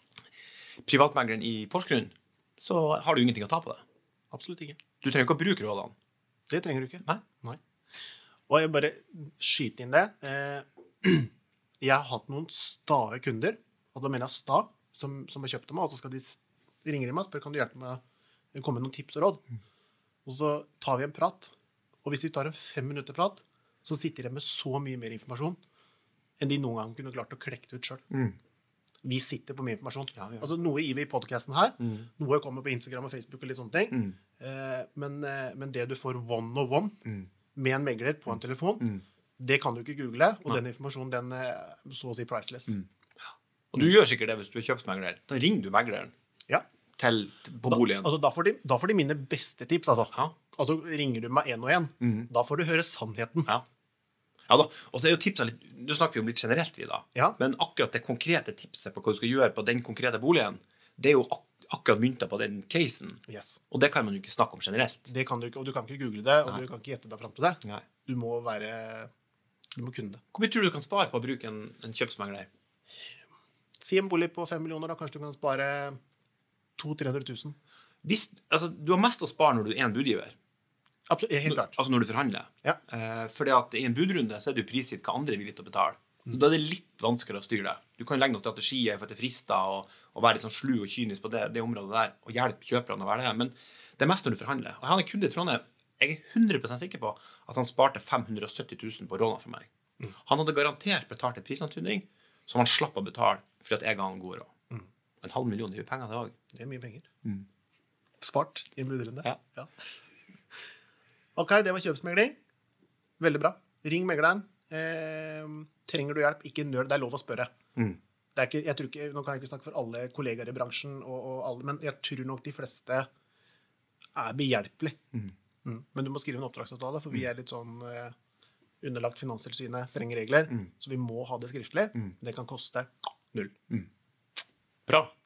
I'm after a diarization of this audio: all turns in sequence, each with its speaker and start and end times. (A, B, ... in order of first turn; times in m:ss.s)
0:00.8-0:03.8 A
0:04.3-0:04.8 B
0:05.0-0:05.9 A
0:06.5-0:07.6 B
0:08.5-0:18.0 B
0:18.5-0:19.4 B
0:20.2-0:21.5 B
0:22.0-0:25.6 B
0:26.4-0:28.0 B
0:28.1-0:28.4 A
0:29.0-0:37.0 B
0:30.1-0:30.5 A
0:31.8-0:32.1 A
0:33.9-0:34.2 A
0:37.5-0:42.8 B
0:43.7-0:46.1 A
0:47.0-0:48.1 A
0:47.7-0:53.5 B
0:52.0-0:52.3 A
0:54.5-1:05.1 A
1:03.3-1:03.6 B
1:05.1-1:09.1 B
1:09.8-1:10.2 B
1:10.3-1:12.5 A
1:13.8-1:16.0 B
1:16.8-1:17.6 B
1:18.0-1:20.3 A
1:21.1-1:21.8 B
1:21.4-1:39.7 A
1:40.2-1:44.5 A
1:45.2-1:46.3 A
1:46.5-1:47.1 B
1:48.2-1:49.7 B
1:51.4-1:52.4 B
1:53.2-1:57.5 B
1:58.3-2:03.1 B
2:04.1-2:05.0 B
2:05.6-2:08.1 B
2:08.8-2:13.6 B
2:14.9-2:15.1 A